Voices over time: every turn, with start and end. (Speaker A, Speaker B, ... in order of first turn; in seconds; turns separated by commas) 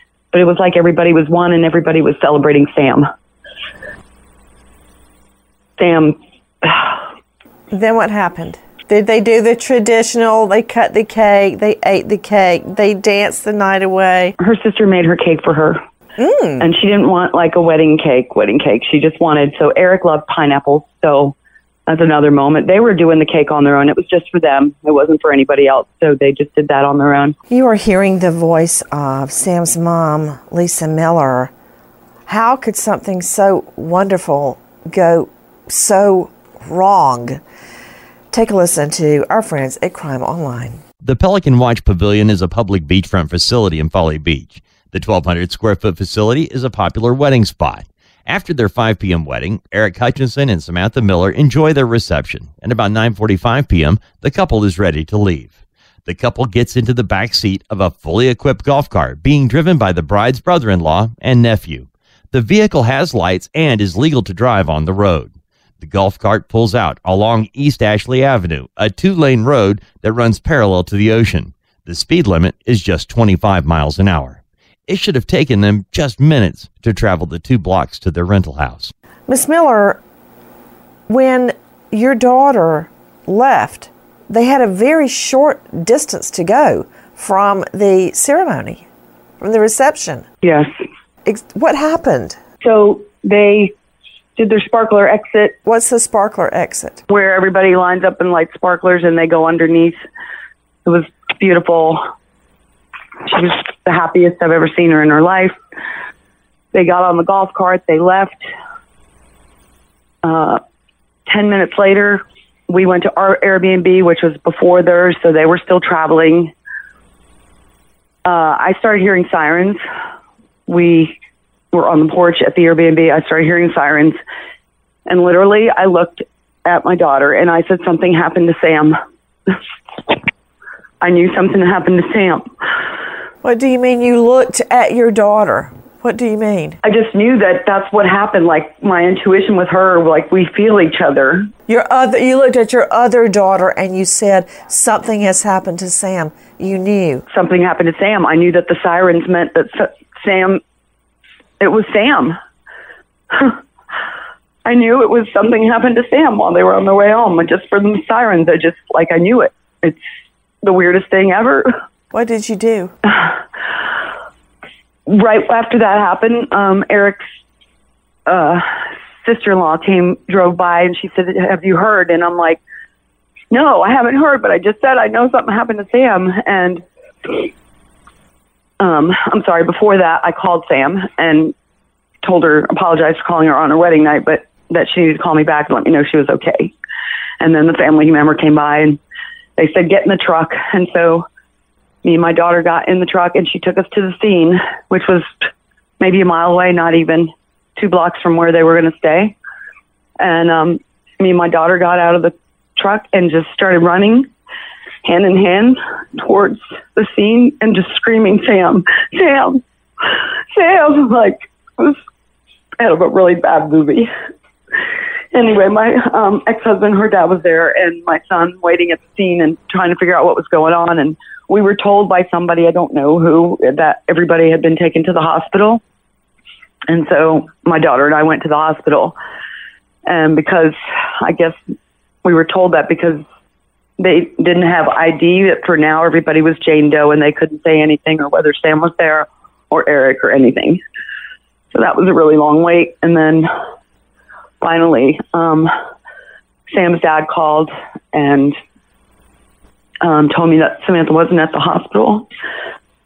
Speaker A: 0.3-3.1, Speaker A: 5.8-7.0, Speaker B: 7.7-14.3, Speaker A: 14.4-15.8, Speaker B: 16.2-16.6, Speaker A: 16.6-21.3, Speaker A: 21.9-27.4, Speaker B: 27.5-31.5, Speaker B: 32.3-37.4, Speaker B: 38.3-40.8, Speaker C: 41.0-78.9, Speaker B: 79.3-80.0, Speaker B: 81.1-88.8, Speaker B: 89.4-90.2, Speaker A: 90.4-90.7, Speaker B: 91.2-92.4, Speaker A: 92.6-93.7, Speaker A: 94.3-95.6, Speaker B: 95.7-97.0, Speaker A: 97.1-100.0, Speaker A: 100.8-102.0, Speaker A: 103.2-105.5, Speaker A: 106.7-108.5, Speaker A: 110.2-110.6, Speaker A: 111.3-116.5, Speaker A: 118.2-119.8, Speaker A: 120.7-121.1, Speaker A: 121.7-124.2, Speaker A: 125.1-129.0, Speaker A: 131.0-132.4, Speaker B: 133.4-136.8, Speaker A: 136.8-141.5, Speaker B: 141.7-147.2, Speaker A: 147.3-150.6, Speaker A: 151.6-152.4, Speaker A: 153.3-153.6, Speaker A: 154.6-160.0, Speaker A: 160.6-161.7, Speaker B: 162.1-162.9, Speaker A: 163.1-163.4, Speaker A: 165.1-167.2, Speaker A: 168.3-172.6, Speaker A: 173.5-177.4, Speaker A: 178.8-181.5, Speaker A: 182.2-186.7, Speaker A: 187.4-189.0, Speaker A: 189.6-191.2, Speaker A: 192.0-195.3, Speaker A: 196.0-199.3, Speaker A: 200.2-204.3, Speaker A: 205.0-209.6, Speaker A: 210.5-212.0, Speaker A: 212.8-214.1, Speaker A: 215.3-225.8, Speaker A: 226.9-229.2, Speaker A: 230.1-231.6, Speaker A: 232.2-233.2, Speaker A: 234.0-240.8, Speaker A: 241.7-243.5, Speaker A: 244.6-245.7, Speaker A: 246.7-248.6, Speaker A: 250.0-252.3